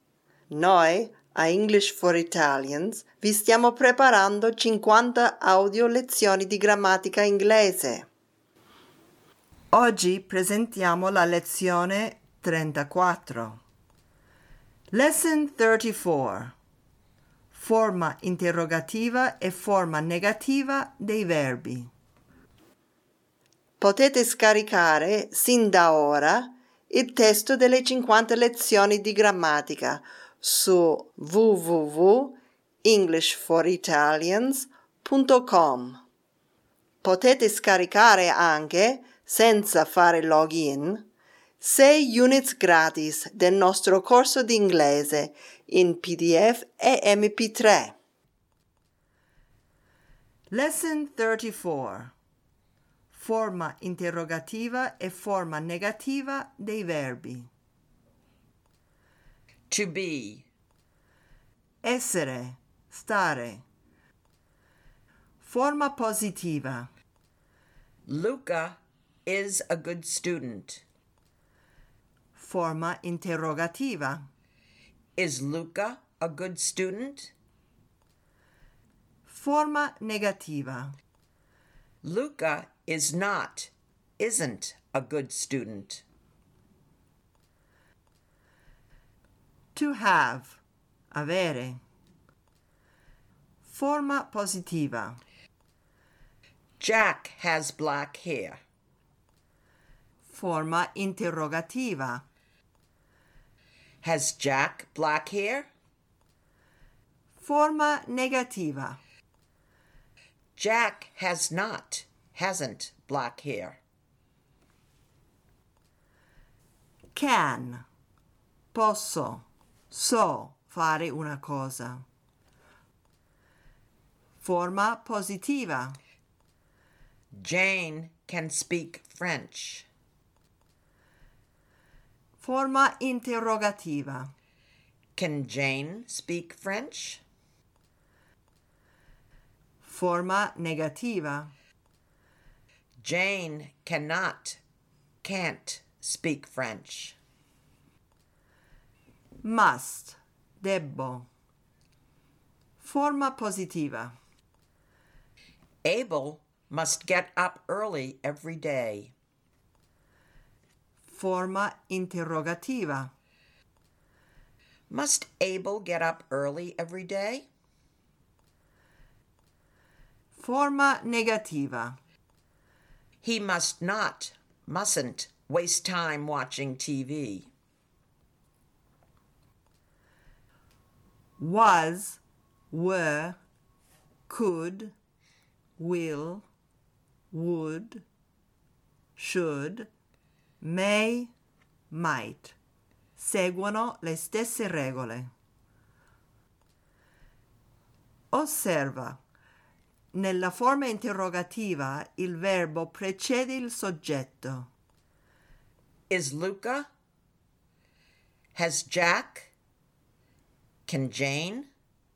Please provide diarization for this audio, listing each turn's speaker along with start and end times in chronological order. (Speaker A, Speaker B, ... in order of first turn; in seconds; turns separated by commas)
Speaker A: 0.5-8.1, Speaker A: 9.7-13.6, Speaker A: 14.9-16.5, Speaker A: 17.5-21.9, Speaker A: 23.8-36.0, Speaker A: 37.0-41.0, Speaker A: 41.6-47.9, Speaker A: 50.5-52.1, Speaker A: 53.1-57.5, Speaker B: 59.7-60.5, Speaker A: 61.8-63.6, Speaker A: 65.4-66.9, Speaker B: 68.1-70.8, Speaker A: 72.3-74.2, Speaker B: 75.2-77.3, Speaker A: 79.3-80.9, Speaker B: 82.0-86.0, Speaker A: 89.7-91.8, Speaker A: 93.6-95.2, Speaker B: 96.8-98.6, Speaker A: 100.3-102.2, Speaker B: 104.0-105.7, Speaker A: 107.3-109.0, Speaker B: 110.5-113.8, Speaker A: 117.1-117.8, Speaker A: 118.7-122.0, Speaker A: 124.4-126.0, Speaker B: 127.3-129.9, Speaker A: 132.4-134.3, Speaker B: 135.2-137.2, Speaker A: 139.8-141.5, Speaker B: 143.0-144.6, Speaker B: 145.2-147.2, Speaker A: 149.4-151.3, Speaker A: 152.8-154.1, Speaker B: 155.8-159.1, Speaker A: 161.1-163.1, Speaker B: 164.9-167.5, Speaker A: 170.3-172.0, Speaker B: 173.2-177.5, Speaker A: 181.4-183.4, Speaker A: 184.3-184.9, Speaker A: 185.8-186.4, Speaker A: 187.3-188.0, Speaker A: 189.2-189.9, Speaker A: 190.6-191.3, Speaker A: 191.9-192.6, Speaker A: 193.2-195.3, Speaker A: 198.3-199.2, Speaker A: 200.1-204.7, Speaker B: 206.1-206.9, Speaker B: 208.5-209.5, Speaker B: 210.9-211.7